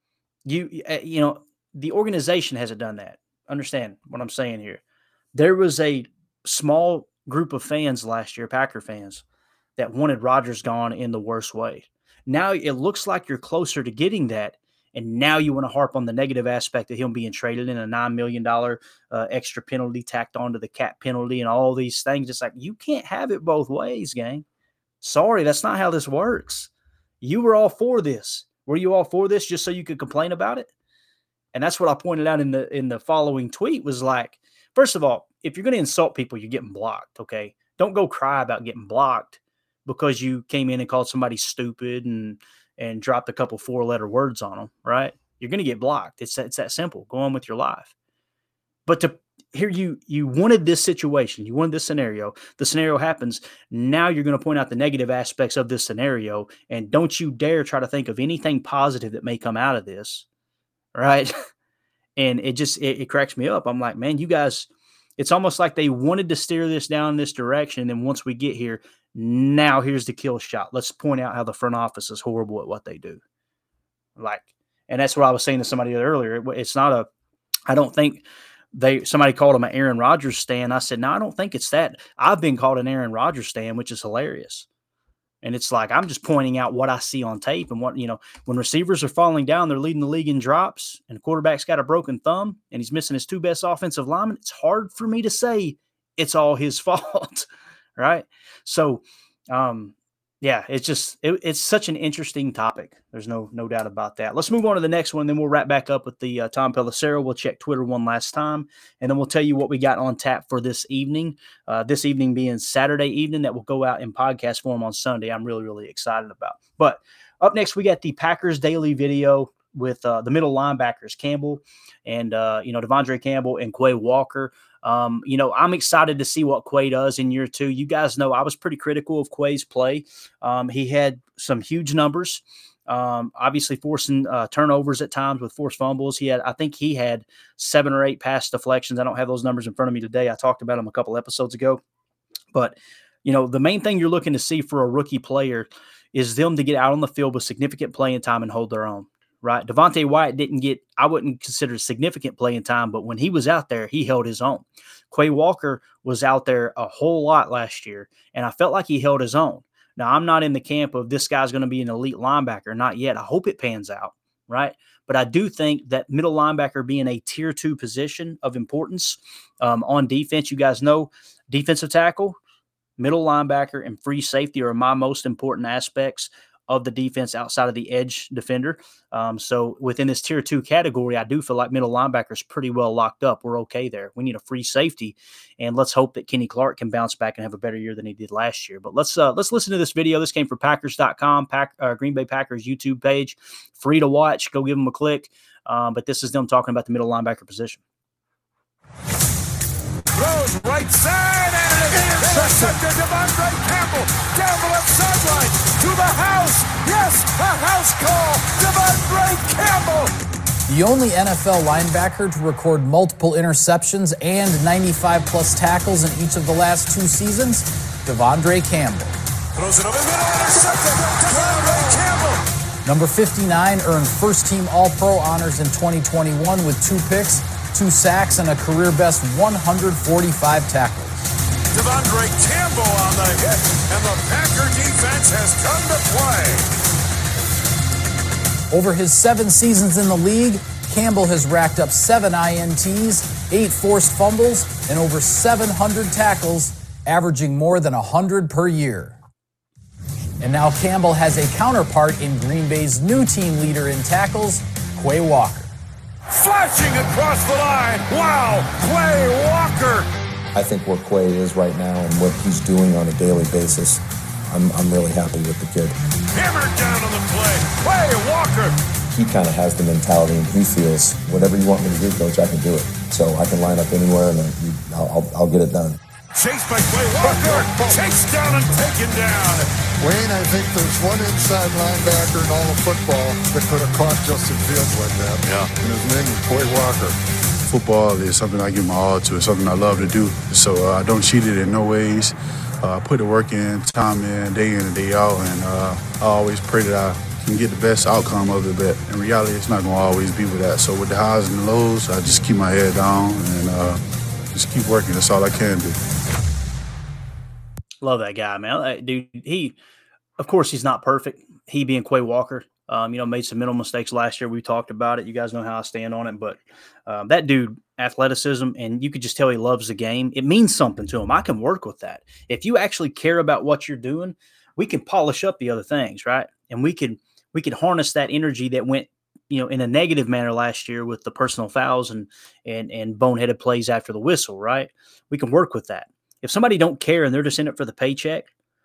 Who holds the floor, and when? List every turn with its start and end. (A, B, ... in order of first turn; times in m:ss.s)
0:00.4-0:04.8 A
0:05.3-0:09.2 A
0:09.8-0:24.4 A
0:25.0-0:26.7 A
0:27.2-0:30.7 A
0:31.5-0:47.9 A
0:48.9-1:00.2 A
1:00.9-1:01.3 A
1:02.2-1:13.2 A
1:14.2-1:17.1 A
1:17.7-1:24.6 A
1:25.4-1:37.4 A
1:38.0-2:21.8 A
2:22.5-2:52.4 A
2:53.0-3:17.8 A
3:20.1-3:30.2 B
3:30.7-3:39.1 C
3:39.6-3:42.4 B
3:42.8-3:51.2 C
3:51.7-3:56.7 B
3:58.7-4:09.2 C
4:10.4-4:15.7 C
4:16.3-4:20.1 B
4:20.6-4:26.0 D
4:26.3-4:28.8 B
4:29.1-4:36.0 D
4:36.3-4:39.7 B
4:37.2-4:38.2 E
4:40.0-4:47.2 E
4:47.6-5:04.0 F
5:04.5-5:06.0 F
5:08.0-5:09.8 A
5:10.4-5:38.5 A